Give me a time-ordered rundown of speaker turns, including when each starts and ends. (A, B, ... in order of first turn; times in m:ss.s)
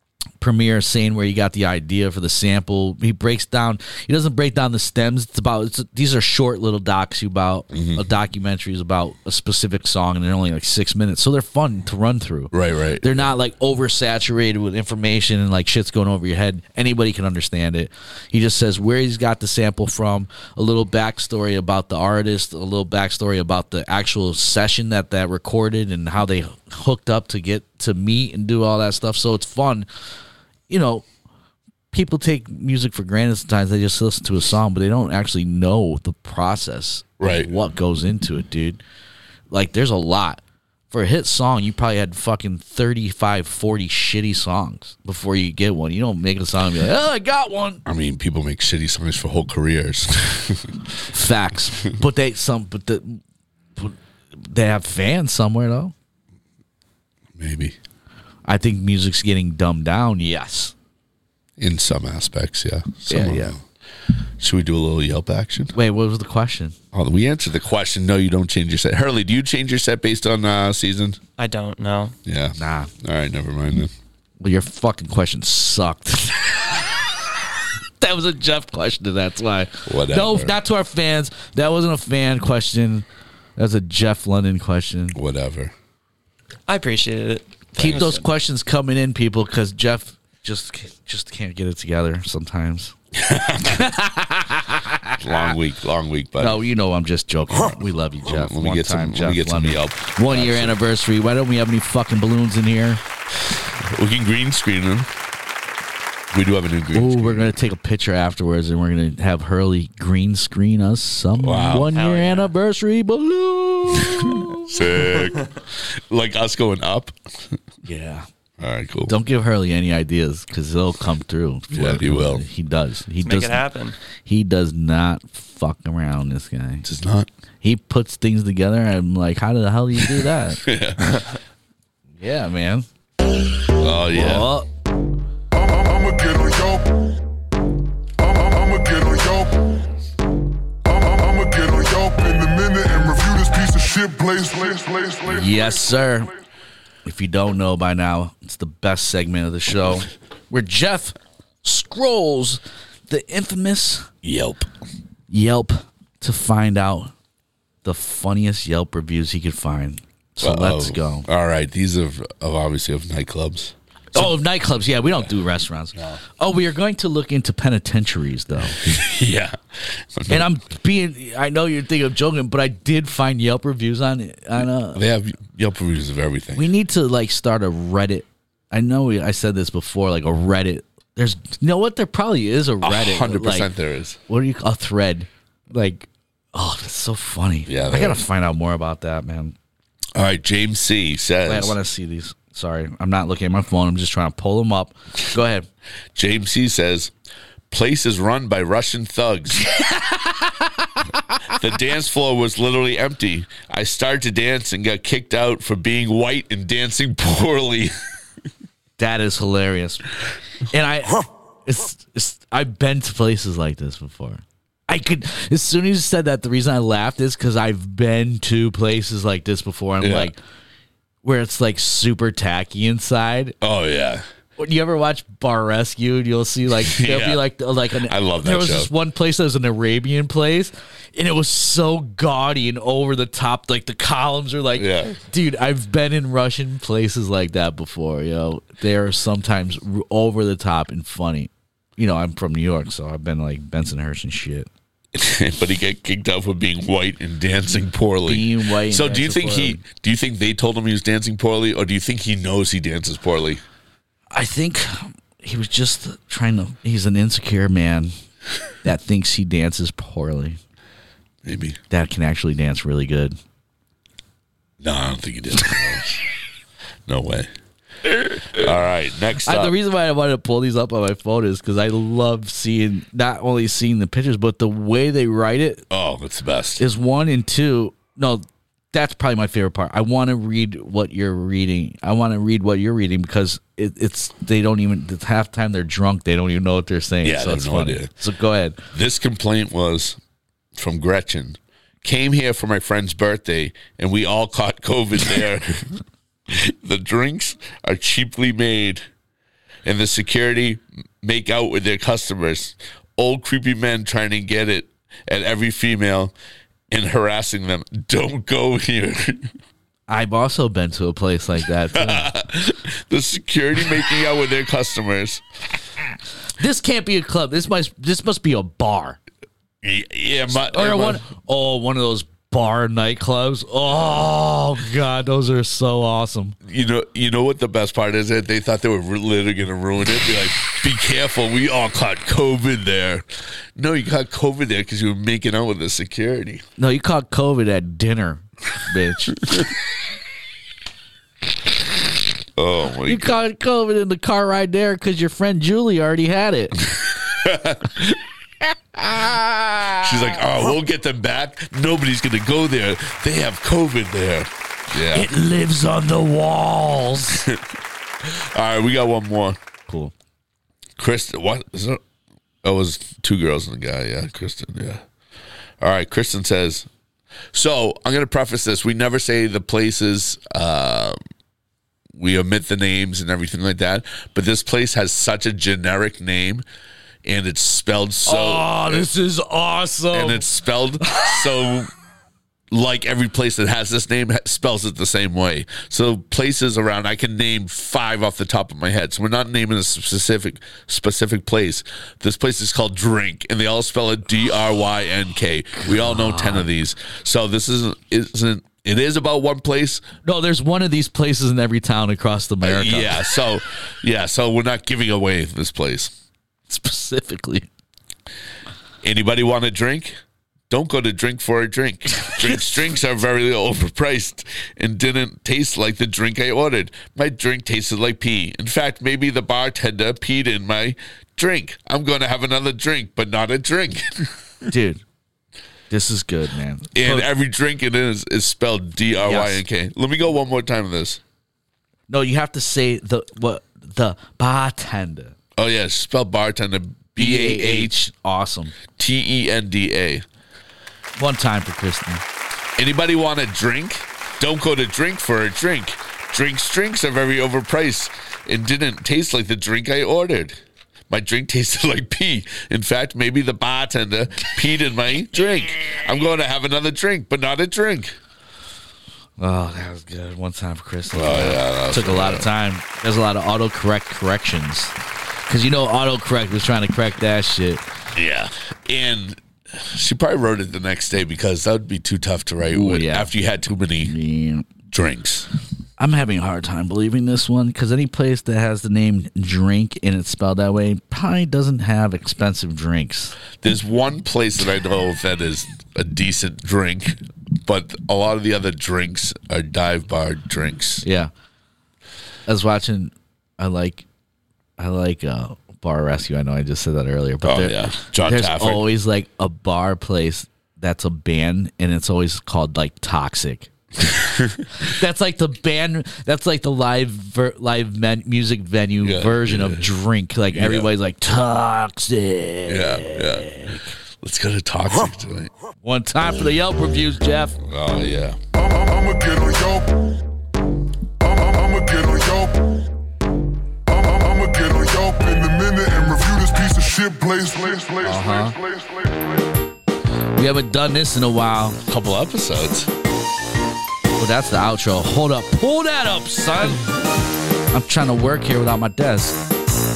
0:00.4-0:29.9 A
0:07.7-0:08.0 B
0:12.5-0:13.3 B
0:30.7-0:31.1 A
0:31.9-0:38.8 A
0:37.2-0:37.5 B
0:39.5-0:47.8 A
0:47.9-0:50.8 B
0:51.1-0:53.2 A
0:53.8-0:55.9 A
0:57.4-0:57.8 B
0:58.5-1:00.7 A
1:01.6-1:03.6 B
1:03.1-1:03.6 A
1:04.4-1:05.7 B
1:05.7-1:06.8 A
1:06.9-1:11.2 B
1:11.4-1:12.2 C
1:12.2-1:13.9 B
1:12.6-1:12.9 A
1:14.4-1:16.8 A
1:18.0-1:23.1 A
1:19.9-1:20.6 B
1:23.6-1:25.2 A
1:25.1-1:25.7 B
1:26.7-1:28.3 C
1:27.8-1:28.1 B
1:27.8-1:32.9 A
1:33.1-1:33.9 B
1:33.6-1:35.5 A
1:35.2-1:36.6 B
1:36.4-1:43.0 A
1:38.2-1:40.8 B
1:43.8-1:45.1 B
1:46.3-1:47.5 B
1:46.9-1:54.7 A
1:51.4-1:51.9 B
1:51.9-1:52.5 C
1:53.9-1:57.5 B
1:57.9-1:58.3 A
1:58.6-1:59.1 B
1:59.1-2:03.6 A
2:01.7-2:02.4 B
2:03.2-2:04.0 C
2:04.2-2:06.8 A
2:06.8-2:07.3 B
2:07.6-2:10.6 A
2:10.0-2:11.2 B
2:12.2-2:12.9 A
2:13.8-2:14.5 B
2:14.1-2:14.7 A
2:15.5-2:17.0 D
2:18.2-2:19.7 D
2:20.8-2:26.2 D
2:25.3-2:26.3 A
2:27.0-2:34.1 A
2:34.2-2:34.7 B
2:35.3-2:37.1 A
2:37.8-2:41.3 A
2:40.4-2:44.3 B
2:44.1-2:48.8 A
2:48.8-2:50.5 B
2:50.3-2:55.0 A
2:54.9-2:56.7 B
2:56.6-3:03.7 A
3:02.8-3:04.2 B
3:04.3-3:09.6 A
3:07.7-3:08.2 B
3:10.2-3:11.8 B
3:11.5-3:15.7 A
3:16.2-3:17.1 B
3:17.7-3:19.6 B
3:19.8-3:20.7 A
3:21.5-3:27.9 B
3:29.0-3:30.1 A
3:30.7-3:40.4 A
3:40.0-3:40.3 B
3:41.2-3:43.6 A
3:43.6-3:44.2 B
3:44.6-4:04.7 A
3:46.8-3:48.9 B
3:54.8-3:55.2 B
4:05.1-4:13.6 B
4:08.3-4:09.8 A
4:14.3-4:18.1 A
4:18.8-4:20.6 A
4:21.4-4:21.8 B
4:21.9-4:23.4 A
4:24.8-4:26.2 B
4:27.1-4:27.5 B
4:28.2-4:29.8 B
4:29.4-4:35.8 A
4:35.9-4:36.8 B
4:36.8-4:48.8 A
4:47.2-4:48.1 B
4:48.9-4:50.2 B
4:50.8-4:59.0 B
4:59.8-5:06.3 B
5:06.9-5:09.5 B
5:10.1-5:12.3 A
5:11.9-5:15.4 B
5:16.6-5:19.2 A
5:19.8-5:21.2 B
5:20.6-5:26.6 A
5:26.6-5:36.6 B
5:36.8-5:39.4 A
5:42.6-5:43.4 B
5:43.1-5:46.8 A
5:46.8-5:48.2 B
5:49.0-5:50.0 A
5:49.9-5:55.3 B
5:55.1-5:57.4 A
5:57.3-5:57.7 B
5:58.2-5:59.6 B
5:59.9-6:00.1 A
6:01.0-6:02.0 B
6:02.6-6:05.0 B
6:05.8-6:06.9 B
6:07.5-6:11.2 B
6:12.2-6:16.6 B
6:17.2-6:19.1 B
6:18.2-6:20.5 A
6:20.1-6:21.9 B
6:21.0-6:21.4 A
6:22.7-6:40.0 B
6:35.9-6:36.7 A
6:40.2-6:43.3 A
6:42.6-6:46.1 B
6:46.7-6:47.7 A
6:49.0-6:50.2 B
6:50.7-7:04.3 B
7:04.7-7:05.0 A
7:05.9-7:07.3 A
7:06.9-7:11.2 B
7:09.2-7:09.6 A
7:12.1-7:15.4 A
7:15.6-7:17.9 B
7:17.2-7:18.7 A
7:19.0-7:20.2 B
7:21.2-7:22.2 A
7:22.8-7:30.6 B
7:31.1-7:38.2 B
7:39.4-7:45.0 A
7:41.1-7:42.5 B
7:45.5-7:47.9 A
7:48.2-7:54.1 B
7:52.7-7:53.3 A
7:54.0-7:54.7 A
7:54.9-7:55.5 B
7:56.0-8:03.4 A
8:03.6-8:11.0 B
8:11.0-8:11.3 A
8:12.5-8:14.0 A
8:14.8-8:23.7 A
8:17.4-8:18.9 B
8:24.0-8:24.7 B
8:24.8-8:33.9 A
8:29.0-8:29.9 B
8:30.5-8:30.9 B
8:32.7-8:33.5 B
8:34.2-8:35.5 B
8:35.8-8:37.6 A
8:37.6-8:38.4 B
8:38.5-8:40.1 D
8:41.2-8:42.8 D
8:43.9-8:49.4 D
8:48.0-8:48.6 A
8:50.3-8:51.8 A
8:51.8-8:52.9 B
8:54.2-8:56.9 A
8:57.7-8:59.4 A